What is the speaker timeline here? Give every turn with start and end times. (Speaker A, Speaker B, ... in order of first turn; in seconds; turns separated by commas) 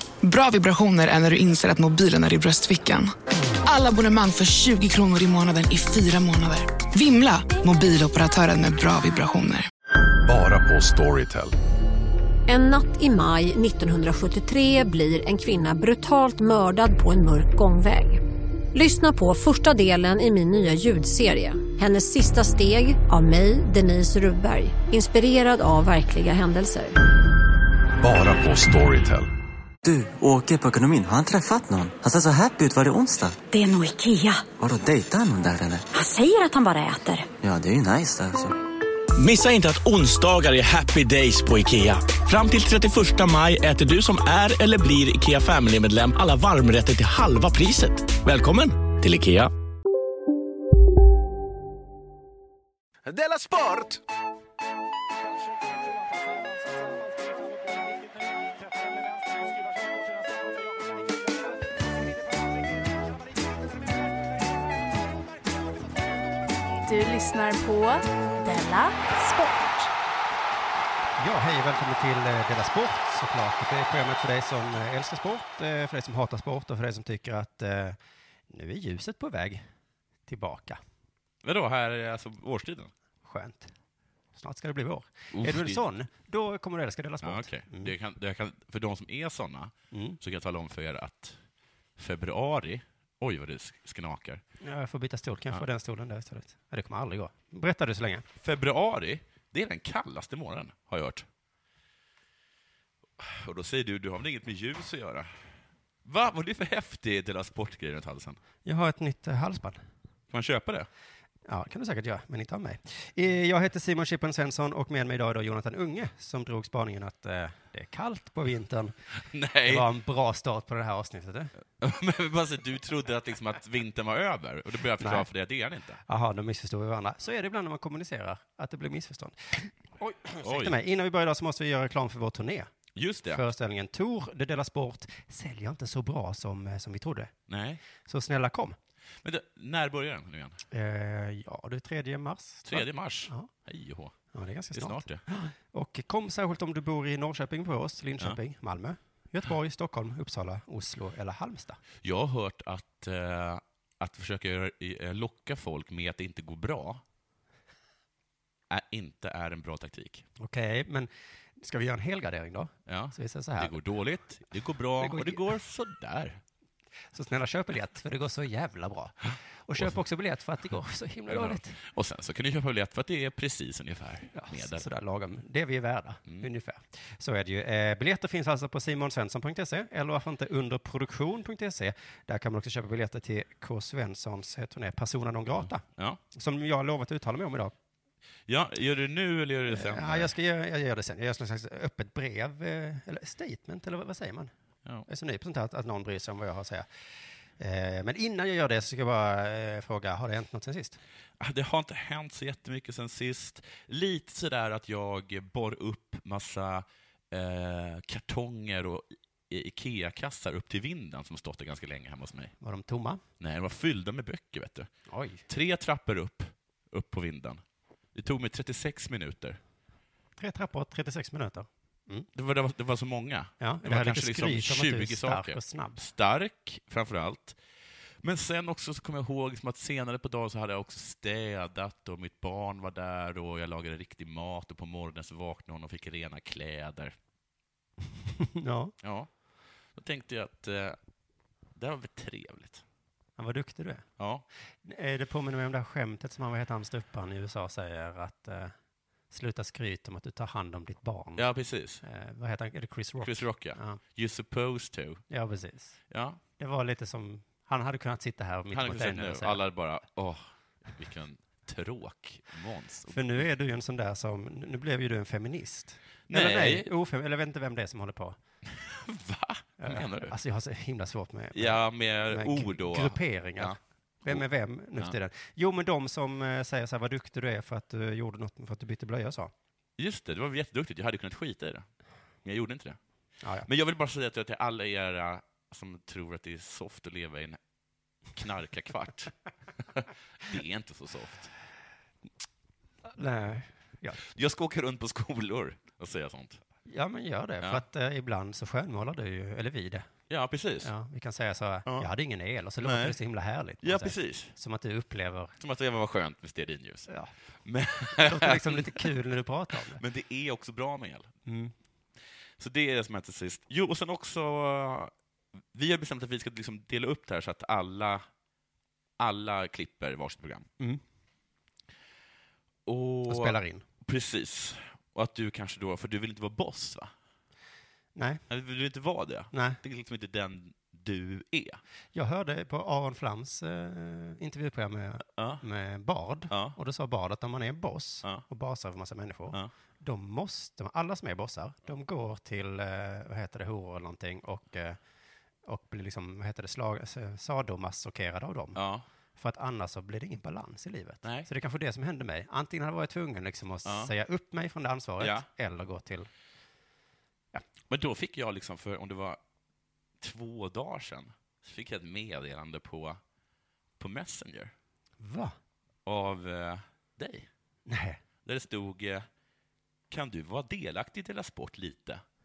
Speaker A: 0.2-3.1, Speaker A: 3.6-9.7, Speaker B: 10.2-11.5, Speaker C: 12.5-18.2, Speaker C: 18.7-26.9, Speaker B: 28.0-29.3, Speaker D: 29.8-33.4, Speaker E: 33.5-34.6, Speaker D: 34.6-35.8, Speaker E: 35.9-37.3, Speaker D: 37.4-38.5, Speaker F: 39.1-49.5, Speaker F: 53.0-54.0, Speaker G: 66.8-69.9, Speaker H: 71.2-78.0, Speaker H: 78.5-79.6, Speaker H: 80.3-80.8, Speaker I: 81.4-82.9, Speaker H: 83.2-83.7, Speaker H: 84.3-87.9, Speaker I: 85.3-85.8, Speaker I: 87.2-91.4, Speaker H: 89.9-90.2, Speaker I: 92.0-94.4, Speaker H: 94.6-98.2, Speaker I: 98.4-101.3, Speaker I: 103.2-105.5, Speaker I: 106.0-108.4, Speaker H: 108.6-109.8, Speaker I: 110.3-110.9, Speaker H: 111.5-118.9, Speaker I: 119.1-119.8, Speaker H: 119.6-121.5, Speaker I: 121.8-126.0, Speaker H: 125.0-125.3, Speaker H: 126.1-132.7, Speaker I: 130.4-130.8, Speaker I: 132.9-133.4, Speaker H: 133.3-137.3, Speaker I: 137.5-137.8, Speaker H: 138.1-138.8, Speaker I: 139.2-140.6, Speaker H: 140.7-143.5, Speaker I: 142.6-144.2, Speaker H: 144.3-151.8, Speaker I: 144.7-145.2, Speaker I: 152.0-157.0, Speaker I: 158.7-160.2, Speaker H: 160.4-163.8, Speaker I: 162.9-166.4, Speaker H: 165.0-165.4, Speaker H: 167.1-171.8, Speaker I: 171.3-174.9, Speaker H: 174.3-187.7, Speaker I: 185.6-186.2, Speaker I: 188.5-190.3, Speaker H: 189.7-194.5, Speaker H: 195.1-196.9, Speaker H: 197.6-201.0, Speaker I: 201.4-212.5, Speaker H: 212.6-213.2, Speaker I: 213.4-214.9, Speaker H: 215.1-215.4, Speaker I: 215.5-217.6, Speaker I: 218.1-219.6, Speaker H: 220.4-222.3, Speaker I: 222.3-227.6, Speaker H: 223.6-226.0, Speaker I: 228.2-237.1, Speaker H: 238.4-238.9, Speaker I: 239.0-239.3, Speaker I: 239.9-241.0, Speaker I: 241.7-242.8, Speaker H: 243.4-244.1, Speaker I: 244.2-244.4, Speaker H: 244.8-248.7, Speaker H: 249.3-251.5, Speaker I: 251.4-252.0, Speaker H: 252.0-254.0, Speaker I: 253.2-255.2, Speaker H: 255.3-256.0, Speaker I: 256.1-256.4, Speaker H: 256.6-259.6, Speaker I: 258.7-263.4, Speaker H: 263.1-268.4, Speaker I: 266.3-266.9, Speaker I: 268.7-270.3, Speaker H: 269.8-279.5, Speaker I: 271.5-274.4, Speaker I: 280.0-281.9, Speaker I: 282.4-283.0, Speaker H: 283.4-283.7, Speaker I: 283.6-287.6, Speaker I: 288.3-291.5, Speaker H: 293.1-294.2, Speaker I: 294.2-296.6, Speaker H: 296.9-300.1, Speaker I: 300.3-300.9, Speaker H: 300.8-305.5, Speaker I: 302.8-303.2, Speaker I: 303.8-304.5, Speaker I: 305.6-307.1, Speaker H: 307.1-307.3, Speaker I: 307.6-309.1, Speaker H: 308.1-310.0, Speaker I: 309.9-311.3, Speaker H: 311.4-311.7, Speaker I: 312.6-315.1, Speaker I: 315.7-318.2, Speaker I: 319.2-320.7, Speaker I: 322.9-327.1, Speaker H: 323.3-323.8, Speaker H: 328.1-328.4, Speaker I: 328.5-331.8, Speaker H: 329.5-329.8, Speaker H: 332.1-345.0, Speaker I: 335.4-335.6, Speaker I: 336.5-336.8, Speaker H: 345.6-348.8, Speaker I: 348.7-349.0, Speaker H: 349.4-356.3, Speaker I: 351.2-351.5, Speaker I: 353.8-354.1, Speaker I: 355.2-355.5, Speaker I: 357.9-359.4, Speaker I: 360.2-363.2, Speaker I: 364.0-364.7, Speaker H: 365.2-365.5, Speaker I: 366.0-367.5, Speaker H: 367.9-368.2, Speaker I: 368.4-369.3, Speaker I: 370.1-372.2